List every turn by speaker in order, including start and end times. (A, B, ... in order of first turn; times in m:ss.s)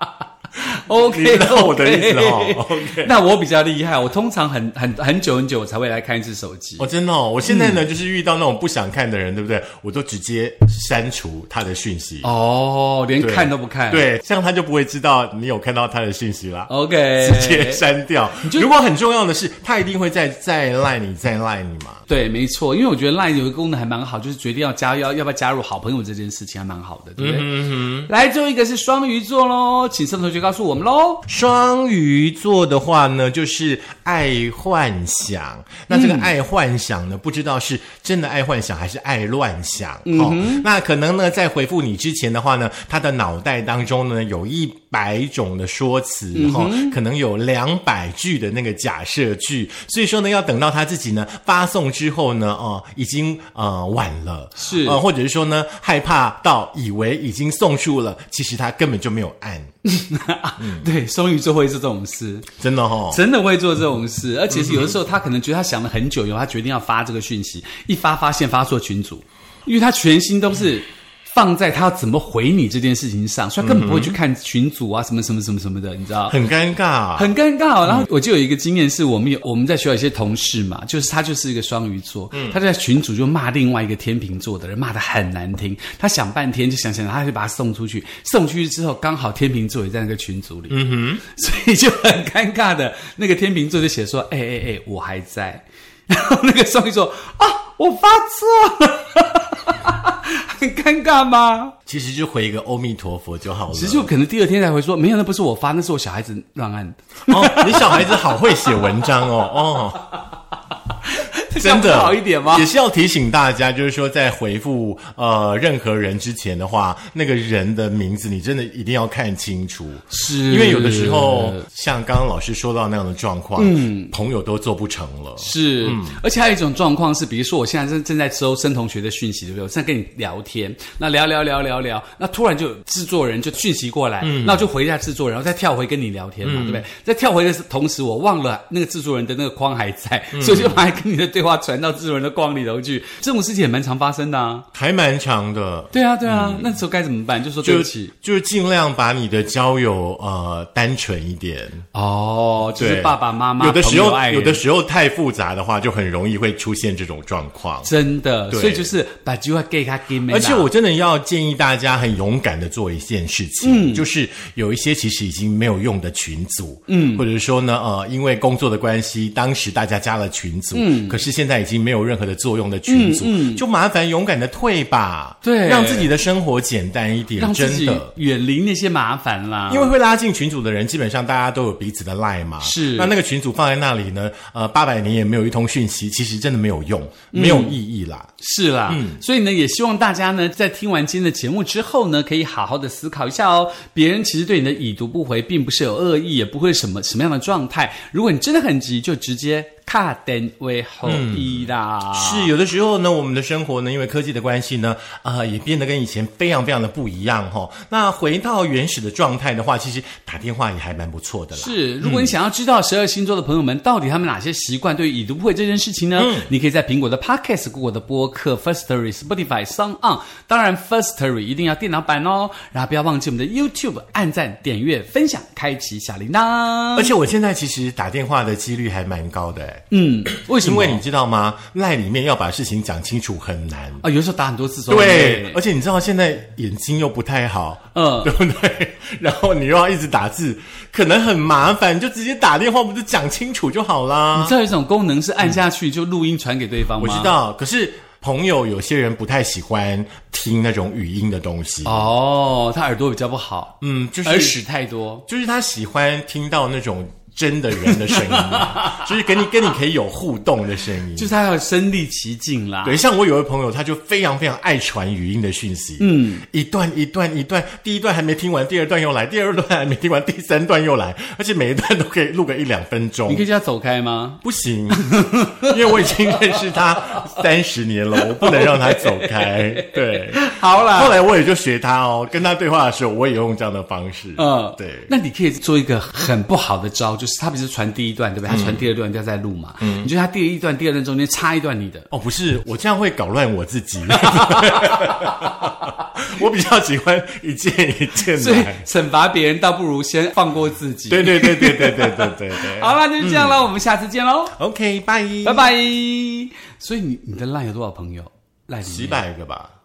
0:00.6-0:06.9 A
0:00.9-0:03.1 B
0:06.8-0:12.3 B
0:07.4-0:07.8 A
0:12.2-0:14.0 A
0:13.2-0:22.0 B
0:16.7-0:17.8 A
0:18.4-0:18.7 A
0:22.1-0:31.2 A
0:27.2-0:28.1 B
0:31.3-0:59.7 B
0:35.9-0:36.3 A
0:40.0-0:40.6 A
0:46.3-0:47.0 A
0:54.6-0:55.0 A
0:59.8-1:02.5 A
1:00.6-1:00.9 B
1:02.6-1:03.2 B
1:03.1-1:16.4 A
1:04.5-1:04.9 B
1:13.6-1:14.2 B
1:16.3-1:17.3 B
1:17.2-1:41.7 A
1:22.3-1:22.6 B
1:30.7-1:31.2 B
1:41.9-1:44.1 B
1:43.7-1:49.1 A
1:47.3-1:50.1 B
1:51.0-1:52.7 A
1:51.6-2:06.2 B
2:00.1-2:01.6 A
2:03.6-2:04.1 A
2:05.4-2:24.6 A
2:14.2-2:14.7 B
2:16.4-2:16.8 B
2:20.3-2:20.8 B
2:24.7-2:26.7 B
2:25.9-2:28.1 A
2:27.6-2:31.8 B
2:31.9-2:34.6 A
2:32.8-2:37.9 B
2:37.8-2:40.7 A
2:38.5-2:38.9 B
2:40.3-2:58.1 B
2:43.6-2:44.0 A
2:46.9-2:47.2 A
2:50.7-2:51.2 A
2:52.9-2:53.6 A
2:55.4-2:56.1 A
2:57.4-2:59.9 A
2:59.7-3:08.3 B
3:02.6-3:03.1 A
3:07.3-3:07.8 A
3:08.4-3:22.5 A
3:08.9-3:09.2 B
3:21.0-3:21.6 B
3:22.1-3:32.3 B
3:31.5-3:47.1 A
3:36.2-3:36.5 B
3:47.0-3:54.0 B
3:49.9-3:51.0 A
3:54.0-3:55.6 A
3:54.9-4:04.6 B
3:57.9-3:58.3 A
4:04.3-4:07.3 A
4:07.0-4:12.1 B
4:11.8-4:13.7 A
4:13.8-4:14.6 B
4:14.2-4:15.2 A
4:15.3-4:21.3 B
4:17.8-4:19.0 A
4:21.1-4:23.0 A
4:22.8-4:33.4 B
4:26.0-4:26.4 A
4:33.3-4:34.4 A
4:34.4-4:45.1 B
4:34.9-4:36.5 A
4:38.4-4:41.2 A
4:44.4-4:52.1 A
4:48.5-4:48.8 B
4:49.8-4:50.1 B
4:52.1-4:58.8 B
4:54.6-4:55.2 A
4:58.3-5:04.6 A
5:01.1-5:03.7 B
5:04.6-5:05.7 B
5:05.4-5:09.2 A
5:08.8-5:09.7 B